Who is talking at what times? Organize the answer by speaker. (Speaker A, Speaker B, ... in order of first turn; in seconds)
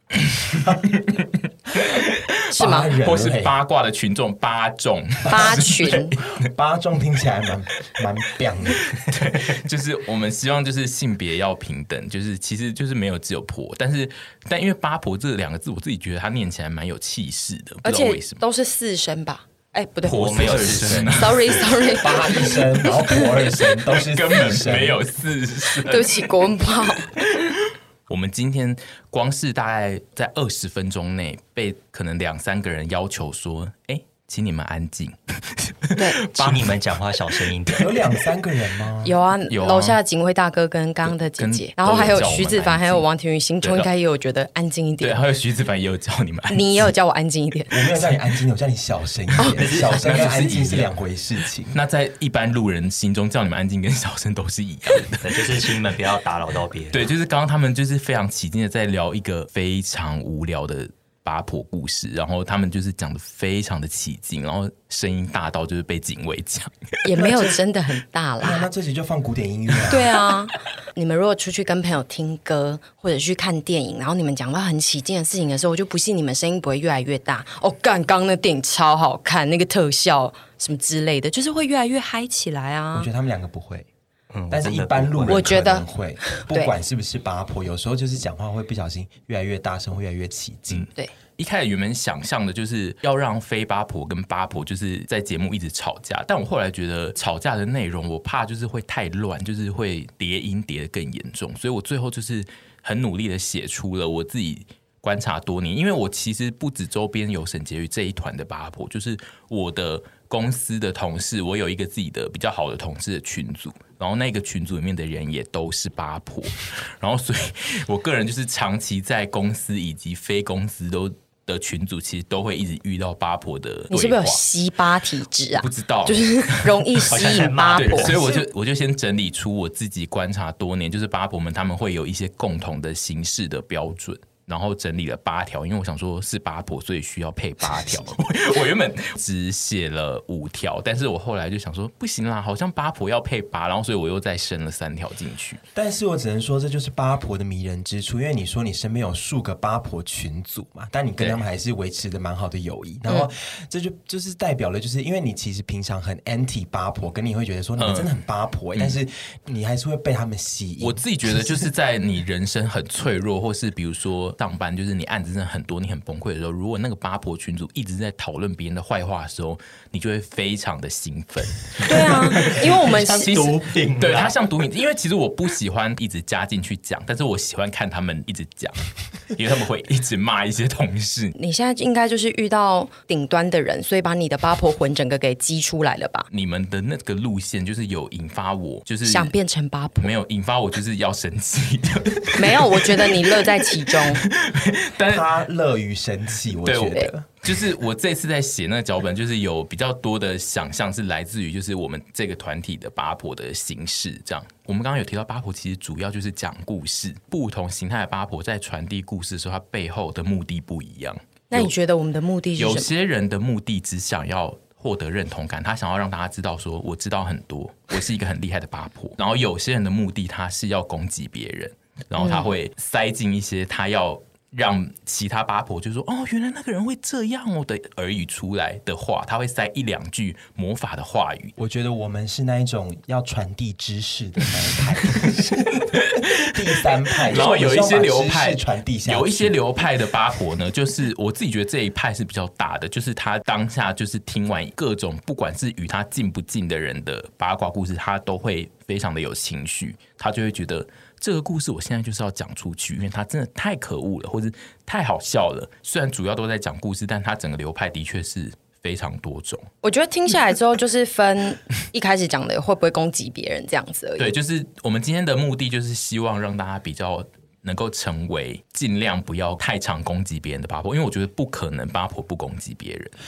Speaker A: 0.3-6.5, 8.8-18.4, 20.0-22.0, 23.9-36.8, 39.5-40.0, 41.2-43.0, 43.6-43.9, 45.0-46.9, 49.6-50.9, 51.7-55.7, 56.9-67.0, 90.7-124.4, 125.5-145.6, 157.8-158.1, 160.8-181.3, 186.3-189.3, 190.0-195.3, 196.6-211.7, 212.6-231.5, 235.9-236.5, 237.3-259.7, 264.2-273.1
Speaker B: 2.5-2.9, 5.3-6.1, 17.8-23.7, 25.8-27.1, 39.0-45.2, 46.5-47.8, 67.0-68.6, 69.9-83.1, 85.3-86.7, 123.9-128.3, 171.8-173.5, 181.3-186.2, 189.0-190.1, 192.3-194.2, 211.5-212.9, 222.2-222.5, 259.8-264.3
Speaker C: 2.5-3.5, 6.4-8.9, 22.0-25.0, 37.7-39.1, 47.7-51.8, 67.2-67.5, 68.4-70.1, 82.9-83.9, 84.5-90.9, 145.7-161.7, 195.1-197.4, 231.6-239.6
Speaker D: 20.0-21.6, 36.3-37.9, 49.5-50.7, 55.1-57.1, 84.3-85.5, 127.1-128.4, 171.8-174.4